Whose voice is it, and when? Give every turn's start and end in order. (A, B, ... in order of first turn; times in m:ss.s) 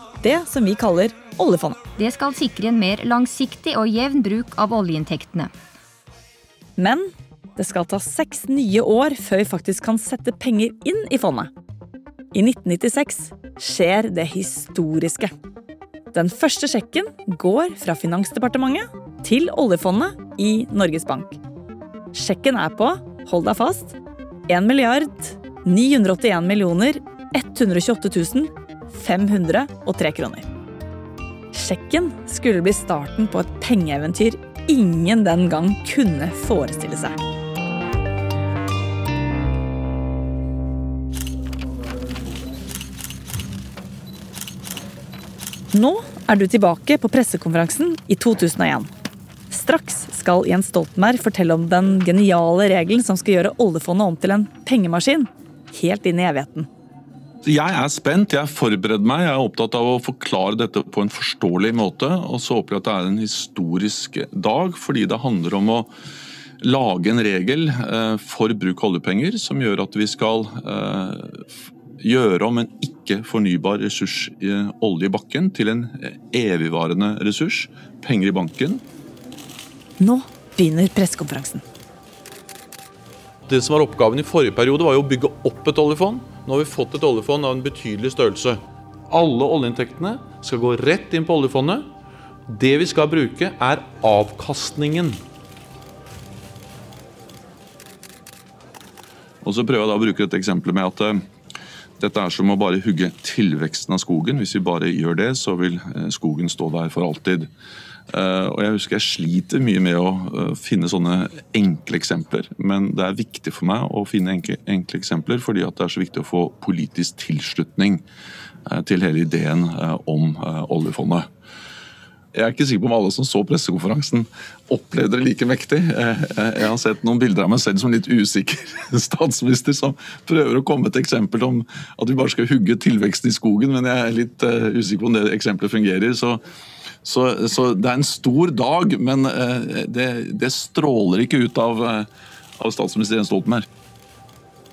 0:00.2-0:01.8 A
0:02.0-0:05.5 B
0:06.8-0:11.5 A
0:12.3-0:15.3 A
0:16.1-0:21.4 A
0:22.1-0:24.0 A
0:24.5-0:30.4 A
0:31.5-0:37.2 A
0:45.7-0:48.9 A
0:49.5-0:56.7 A
0:57.4-1:05.9 C
1:06.6-1:11.4 C
1:12.0-1:18.8 C
1:20.0-1:21.6 A
1:23.5-1:31.8 C
1:32.5-1:35.2 C
1:39.4-1:41.2 C
1:42.0-1:47.5 C
1:48.1-1:58.0 C
1:58.7-2:01.3 C
2:02.3-2:16.4 C
2:17.0-2:22.1 C
2:22.6-2:23.6 C